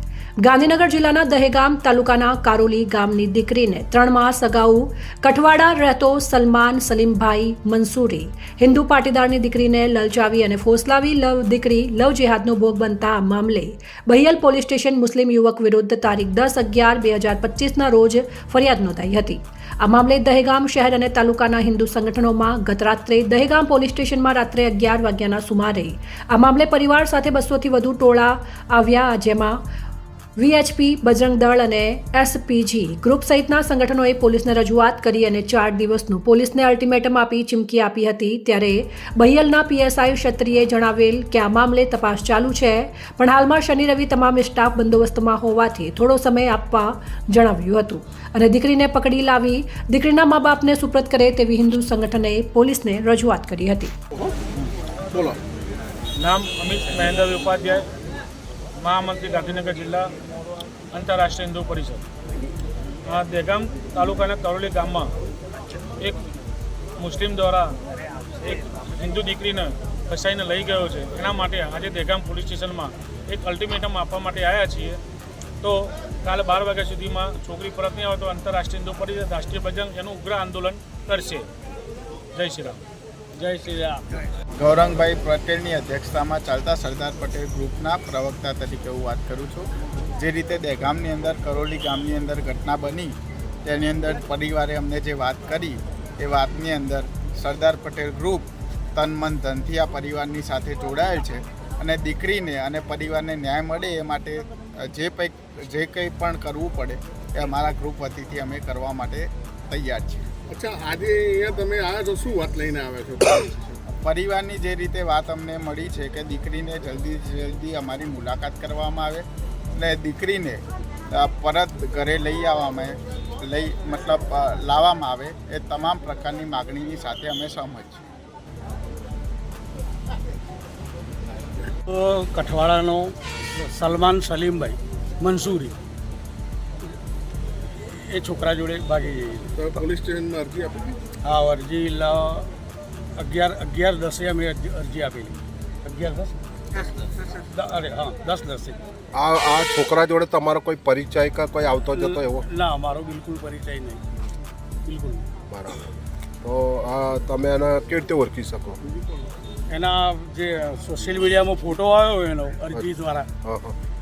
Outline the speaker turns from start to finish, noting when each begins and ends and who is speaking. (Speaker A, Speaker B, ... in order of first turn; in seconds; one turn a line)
Speaker A: 0.4-29.6
Speaker A: 30.4-53.9
Speaker B: 55.1-55.4
Speaker C: 56.2-57.9
Speaker C: 58.8-60.1
Speaker C: 60.9-62.0
Speaker C: 63.1-65.1
Speaker C: 67.0-67.8
Speaker C: 68.4-75.0
Speaker C: 75.6-81.5
Speaker C: 82.3-82.8
Speaker C: 83.3-84.1
Speaker D: 84.6-93.1
Speaker D: 93.6-110.2
Speaker B: 110.5-113.8
Speaker D: 113.9-128.0
Speaker E: 131.8-135.8
Speaker E: 137.8-139.8
Speaker B: 139.5-141.0
Speaker E: 141.2-142.5
Speaker E: 143.2-148.8
Speaker F: 149.1-152.4
Speaker E: 151.9-154.0
Speaker E: 154.8-155.3
Speaker F: 155.5-155.8
Speaker F: 156.4-158.8
Speaker E: 159.7-163.3
Speaker F: 163.4-163.8